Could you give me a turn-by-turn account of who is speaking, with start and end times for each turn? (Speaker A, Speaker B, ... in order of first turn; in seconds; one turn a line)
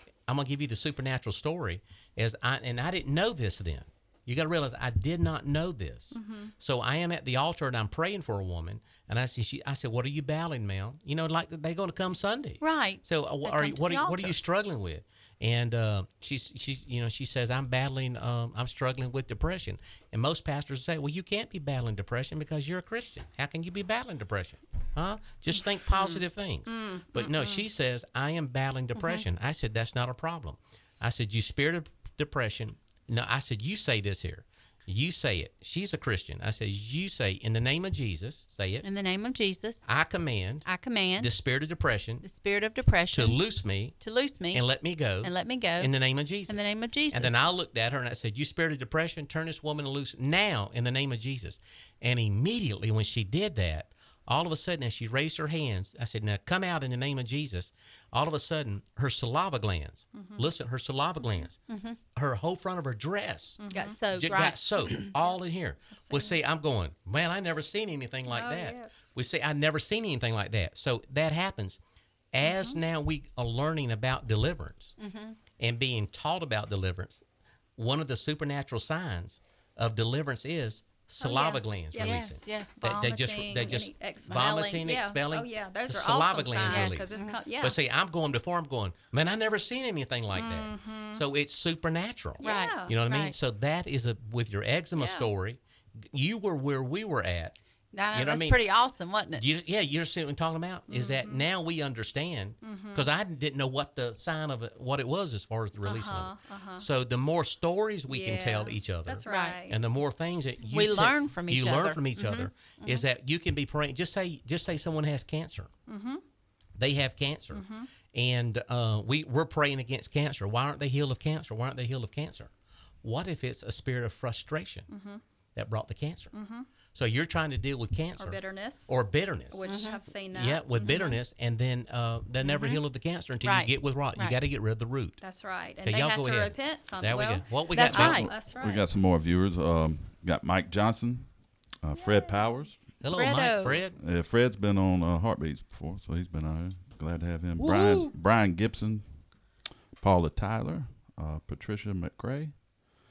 Speaker A: 0.3-38.9
Speaker B: 6.1-6.5
Speaker C: 12.6-14.3
Speaker C: 25.9-26.2
Speaker B: 26.6-27.6
Speaker C: 28.9-29.2
Speaker C: 38.8-39.9
Speaker A: 39.8-42.2
Speaker C: 40.6-41.3
Speaker C: 42.2-43.4
Speaker A: 43.1-61.6
Speaker C: 44.0-44.6
Speaker C: 45.2-45.9
Speaker C: 46.5-47.4
Speaker B: 60.1-60.5
Speaker B: 61.2-61.5
Speaker C: 61.7-62.0
Speaker A: 62.1-63.6
Speaker B: 63.6-64.0
Speaker C: 63.7-65.1
Speaker A: 64.1-71.8
Speaker B: 65.9-66.4
Speaker B: 68.3-69.1
Speaker A: 72.3-75.0
Speaker B: 72.4-72.8
Speaker C: 75.0-75.4
Speaker A: 75.6-77.2
Speaker A: 77.8-97.6
Speaker B: 81.2-87.8
Speaker C: 82.0-82.8
Speaker C: 86.7-87.4
Speaker B: 90.3-91.2
Speaker B: 92.4-92.9
Speaker C: 92.4-93.3
Speaker B: 95.0-95.3
Speaker C: 97.9-99.4
Speaker A: 98.1-98.7
Speaker A: 99.3-115.7
Speaker B: 100.9-101.4
Speaker B: 102.6-103.1
Speaker B: 105.8-106.8
Speaker B: 108.1-109.8
Speaker C: 109.2-109.6
Speaker C: 110.6-113.0
Speaker B: 115.9-116.2
Speaker A: 116.8-122.5
Speaker B: 117.5-117.9
Speaker A: 123.0-124.9
Speaker B: 124.9-125.2
Speaker A: 125.5-126.3
Speaker B: 126.3-126.7
Speaker A: 126.9-129.6
Speaker B: 128.2-129.0
Speaker B: 129.5-131.2
Speaker C: 129.7-130.0
Speaker A: 130.3-135.2
Speaker C: 130.8-131.2
Speaker C: 132.4-132.8
Speaker C: 133.4-134.4
Speaker B: 135.2-138.9
Speaker A: 135.8-138.3
Speaker C: 137.7-138.3
Speaker D: 138.0-143.0
Speaker B: 141.9-142.7
Speaker A: 143.0-144.0
Speaker C: 143.1-143.8
Speaker D: 144.0-152.7
Speaker A: 147.6-148.1